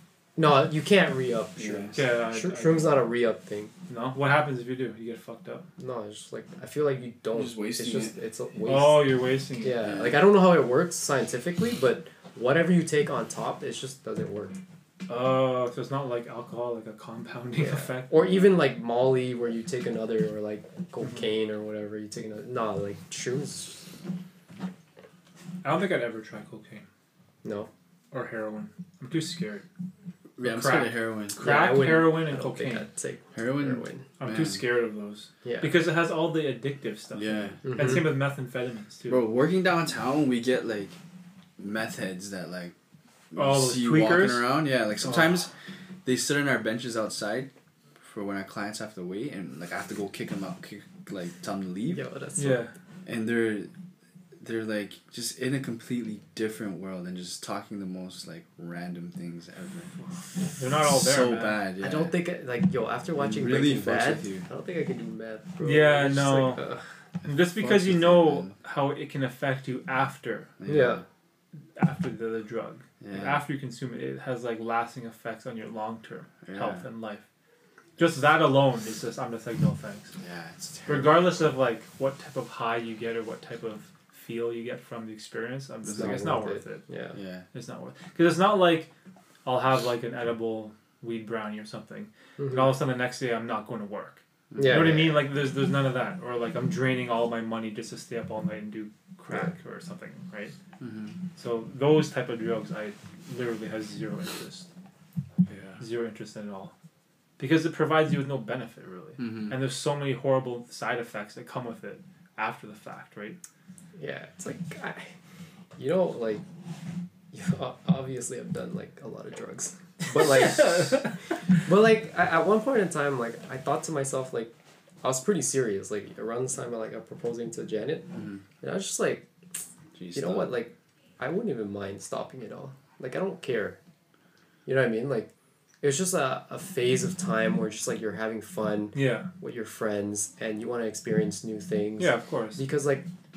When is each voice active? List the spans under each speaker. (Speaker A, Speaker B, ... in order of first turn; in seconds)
Speaker A: 0.4-3.7, 5.8-14.6, 17.6-23.8, 27.4-27.7, 31.4-34.0, 35.5-35.8, 37.6-38.1, 51.9-52.7, 61.8-66.8, 70.7-71.0, 85.8-87.2, 92.4-92.7, 94.6-95.2, 114.0-115.1, 115.8-116.4, 117.3-124.5, 125.0-128.1, 128.6-129.3, 130.2-133.8, 134.7-143.1
Speaker B: 1.6-2.0, 7.3-8.1, 9.8-10.2, 30.4-31.4, 33.3-34.6, 37.1-38.0, 39.1-41.0, 41.6-42.7, 43.3-45.5, 46.0-52.0, 53.1-53.7, 54.4-59.9, 60.8-62.1, 63.2-64.5, 67.2-68.6, 70.6-71.0, 73.0-73.4, 76.4-76.9, 80.2-81.4, 85.8-86.3, 87.1-87.5, 94.5-95.0, 100.8-101.2, 109.2-109.6, 128.1-128.4, 129.9-130.6
Speaker C: 1.9-3.0, 3.9-5.7, 8.7-9.8, 15.1-18.1, 21.0-21.3, 25.6-26.9, 28.1-29.7, 30.4-32.9, 34.2-39.3, 43.4-45.4, 52.4-52.7, 60.6-61.6, 65.6-66.7, 67.2-70.6, 71.8-77.2, 78.0-80.1, 80.9-86.9, 87.5-88.9, 89.5-100.5, 101.4-104.7, 105.5-106.7, 107.4-113.4, 120.2-121.1, 138.9-139.3, 142.0-142.6